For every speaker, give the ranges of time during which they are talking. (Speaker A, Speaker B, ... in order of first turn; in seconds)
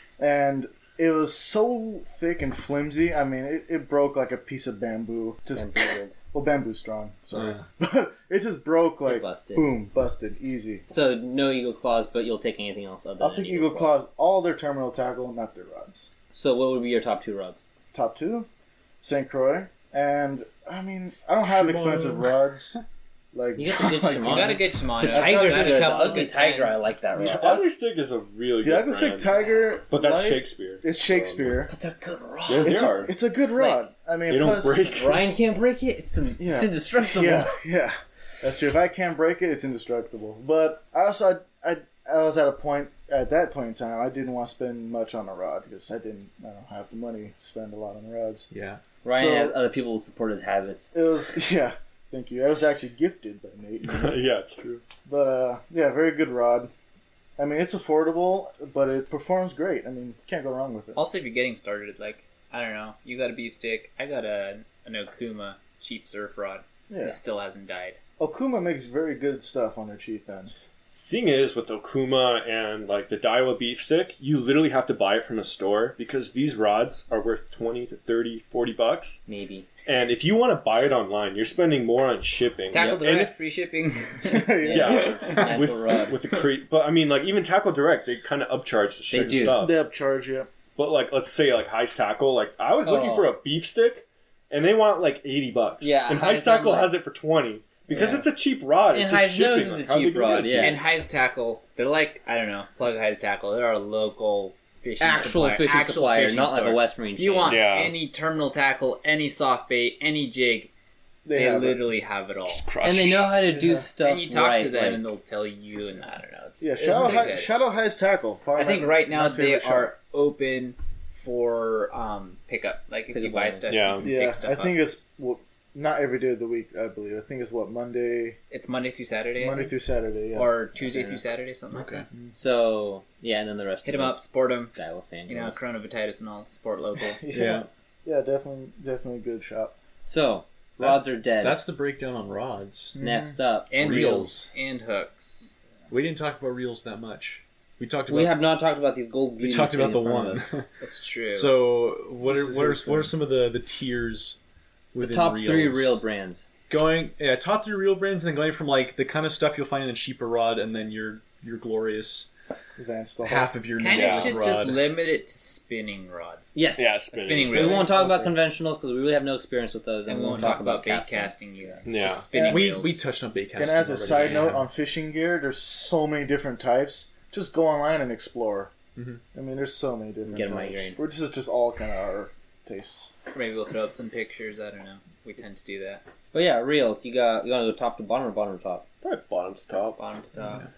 Speaker A: 0.2-10.8, 13.2-16.1, 17.9-18.5, 19.0-22.8, 23.3-26.2, 27.2-27.6, 28.6-31.7, 32.6-34.8, 36.4-48.5, 49.1-49.5, 50.9-54.2, 55.0-56.7, 57.4-61.0, 66.9-67.2, 68.2-70.5, 84.2-85.4, 89.5-90.5, 111.2-111.8, 113.5-113.9, 116.6-119.9, 124.0-128.4, 129.4-130.5, 137.2-139.7, 142.9-143.3, 152.2-153.1, 162.8-163.6, 167.9-168.3, 172.3-172.6, 173.6-178.7, 179.3-183.1
Speaker B: 5.5-6.1, 9.0-9.7, 10.9-13.9, 16.3-17.6, 23.6-27.7, 31.7-32.9, 34.8-37.5, 49.0-50.9, 79.3-79.7, 84.6-86.3, 89.1-89.6, 92.8-93.3, 95.8-96.9, 97.9-98.2, 98.9-100.8, 105.0-107.6, 112.8-115.0, 117.0-117.3, 123.1-123.7, 130.8-131.2, 132.3-135.6, 140.1-141.6, 143.0-144.2, 148.1-150.4, 155.0-156.4, 166.5-171.3, 180.2-181.0, 186.3-188.8
Speaker C: 7.3-7.7, 21.4-22.4, 48.5-48.8, 131.7-132.1, 137.3-137.7, 140.8-143.0, 143.7-144.5, 145.9-148.4, 149.4-150.7, 151.3-154.4, 154.9-156.0, 156.7-162.3, 163.2-164.9, 172.3-174.7, 178.9-179.2
Speaker D: 24.3-26.9, 60.9-68.0, 82.7-85.5, 100.6-110.7, 111.3-112.6, 114.0-117.5, 118.5-124.8, 128.5-129.7, 130.3-132.1, 133.8-134.7, 135.3-137.2, 143.7-145.5, 150.8-151.5, 163.8-167.9, 170.1-173.0, 183.3-186.0, 190.0-190.6
Speaker E: 27.2-29.3, 29.9-31.5, 32.5-33.1, 34.3-35.2, 53.8-54.8, 70.9-79.2, 79.8-83.3, 84.7-89.8, 90.8-100.8, 107.5-107.9, 112.5-113.3, 123.7-124.1, 163.9-164.4, 166.8-167.9, 171.8-172.3, 189.0-190.0